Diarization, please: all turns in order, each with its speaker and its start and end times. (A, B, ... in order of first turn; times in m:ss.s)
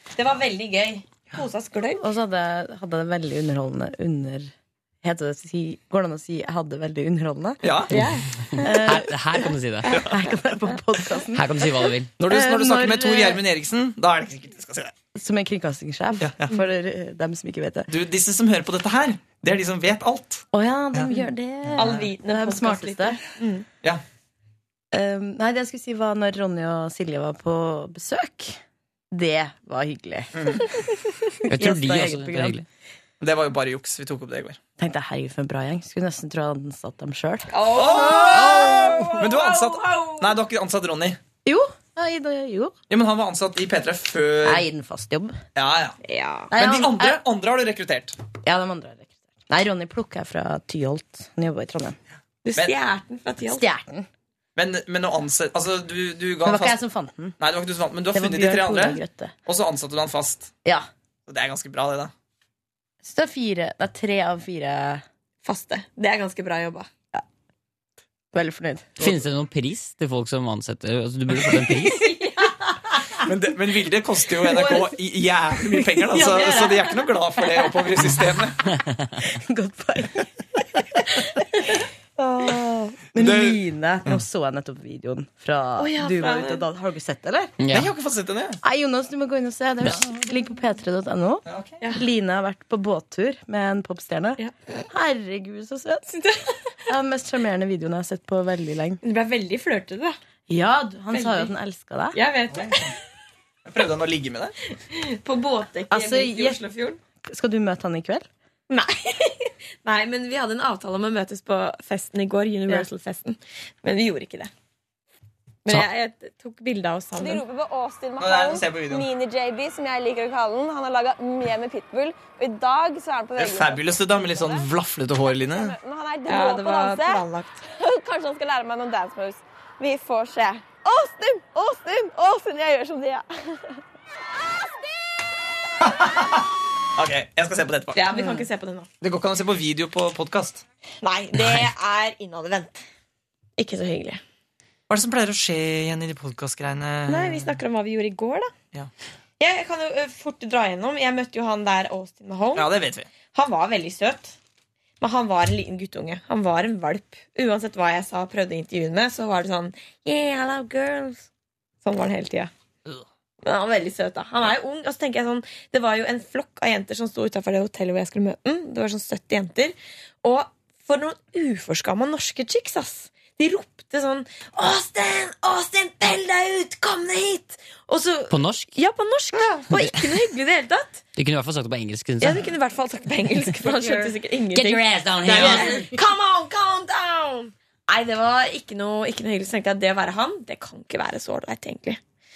0:00.2-0:02.0 A
0:02.0-0:04.5 B
0:05.0-0:07.6 B
0:07.6-0:08.0 C
0:07.9-0:08.8 A
0:08.6-0:13.4 B
0:08.7-0:10.0 D
0:11.3-0:12.2 D
0:12.2-0:14.9 C
0:15.1-0:17.9 B
0:16.2-0:16.5 C
0:17.9-0:21.1 C
0:20.5-0:23.2 B
0:21.7-0:22.0 C
0:21.7-0:23.6 A
0:24.9-0:28.6 B
0:29.1-0:30.8 B
0:30.3-0:30.6 C
0:31.4-0:32.6 B
0:31.5-0:32.6 D
0:33.2-0:34.6 C
0:34.8-0:37.6 B
0:37.5-0:40.3 A
0:37.7-0:41.2 C
0:38.6-0:39.1 B
0:41.4-0:42.7 B
0:42.9-0:44.6 C
0:44.4-0:45.4 B
0:45.6-0:46.0 C
0:46.0-0:46.5 A
0:46.5-0:47.2 B
0:46.5-0:48.2 C
0:48.4-0:52.0 B
0:52.4-0:53.6 A
0:53.4-0:54.0 B
0:54.6-0:56.8 C
0:56.4-0:57.4 B
0:57.4-1:00.5 C
0:58.1-0:59.3 B
1:01.3-1:02.1 C
1:03.0-1:05.0 B
1:05.4-1:06.9 A
1:08.3-1:09.1 B
1:09.0-1:12.1 D
1:11.4-1:11.7 B
1:11.9-1:12.6 A
1:13.2-1:18.6 C
1:14.5-1:14.8 B
1:14.5-1:14.8 A
1:15.7-1:16.7 B
1:16.1-1:17.0 A
1:19.2-1:20.3 B
1:22.2-1:27.5 B
1:23.2-1:24.2 C
1:25.8-1:26.6 A
1:27.6-1:27.9 D
1:27.7-1:28.6 C
1:28.6-1:34.4 B
1:31.4-1:31.8 C
1:34.9-1:36.0 B
1:36.1-1:36.6 A
1:36.9-1:39.0 B
1:39.0-1:40.2 A
1:40.5-1:42.2 B
1:41.1-1:41.5 A
1:42.1-1:42.9 A
1:42.5-1:42.9 C
1:43.6-1:44.5 C
1:44.8-1:47.0 A
1:45.9-1:46.6 B
1:47.2-1:48.3 B
1:48.7-1:54.5 A
1:55.6-2:04.6 A
1:57.2-1:58.2 E
1:58.2-1:59.1 C
1:59.2-1:59.7 E
2:00.4-2:03.1 E
2:03.4-2:05.8 C
2:05.7-2:07.2 E
2:06.2-2:13.8 A
2:07.8-2:10.2 E
2:11.6-2:12.7 E
2:15.8-2:18.1 C
2:17.9-2:18.9 A
2:19.0-2:20.6 C
2:21.0-2:22.8 A
2:23.6-2:24.2 A
2:24.9-2:27.6 C
2:27.1-2:28.5 A
2:29.4-2:32.7 A
2:32.5-2:33.1 C
2:33.3-2:34.4 A
2:35.0-2:41.3 A
2:41.8-2:42.5 A
2:43.4-3:01.0 A
2:58.3-2:58.8 D
2:59.7-3:00.0 D
3:01.2-3:02.4 D
3:02.2-3:12.0 A
3:04.5-3:05.9 D